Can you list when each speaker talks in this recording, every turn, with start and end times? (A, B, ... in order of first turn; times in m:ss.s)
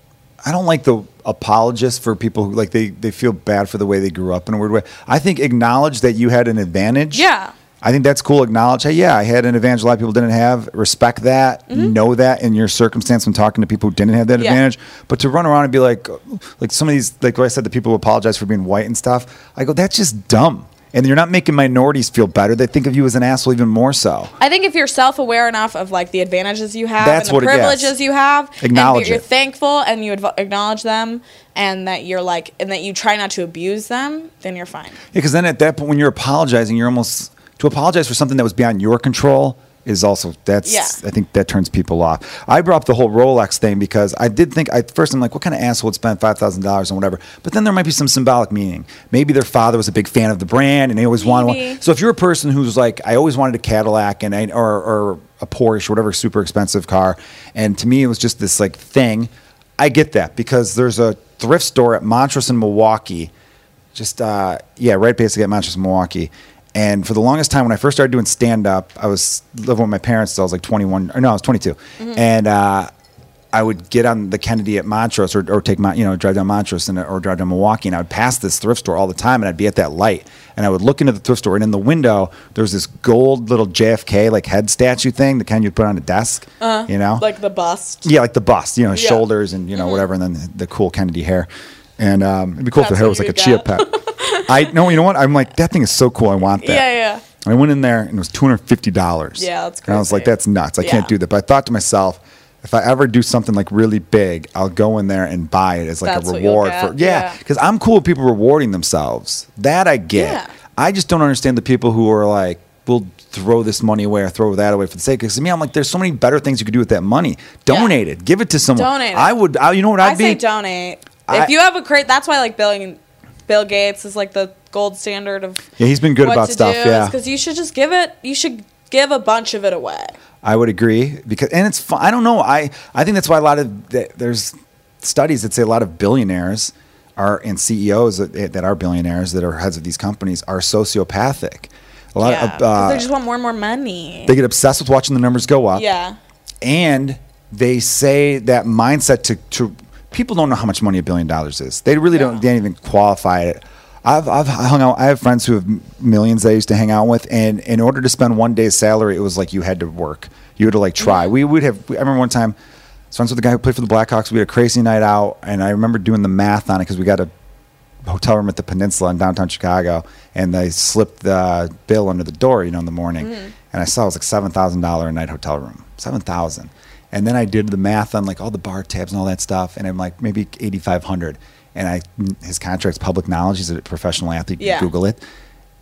0:00.4-0:07.3 A
0:07.1-0:07.5 B
0:07.8-0:24.3 A
0:11.7-0:11.9 B
0:24.4-0:35.0 B
0:27.0-0:27.9 A
0:28.6-0:29.2 A
0:35.1-1:03.3 A
0:40.6-0:41.0 B
0:51.2-0:51.8 B
1:04.0-1:12.9 A
1:12.0-1:12.2 B
1:13.5-1:27.3 A
1:26.6-1:28.1 B
1:28.0-1:31.5 A
1:28.9-1:30.0 B
1:32.0-1:36.9 A
1:32.8-1:34.8 B
1:36.6-1:37.2 B
1:37.4-2:00.4 A
1:39.4-1:41.1 B
1:46.0-1:47.4 B
1:50.2-1:50.5 B
1:57.7-1:58.0 B
1:58.7-1:59.3 B
2:00.0-2:05.7 B
2:05.8-2:07.2 A
2:06.2-2:10.2 B
2:10.4-2:23.1 A
2:22.2-2:24.3 B
2:24.3-2:25.8 A
2:25.8-2:26.2 B
2:26.6-2:42.6 A
2:32.1-2:32.4 B
2:41.0-2:41.3 B
2:43.1-2:47.3 A
2:48.1-3:05.2 A
2:53.2-2:53.5 B
3:04.6-3:04.9 B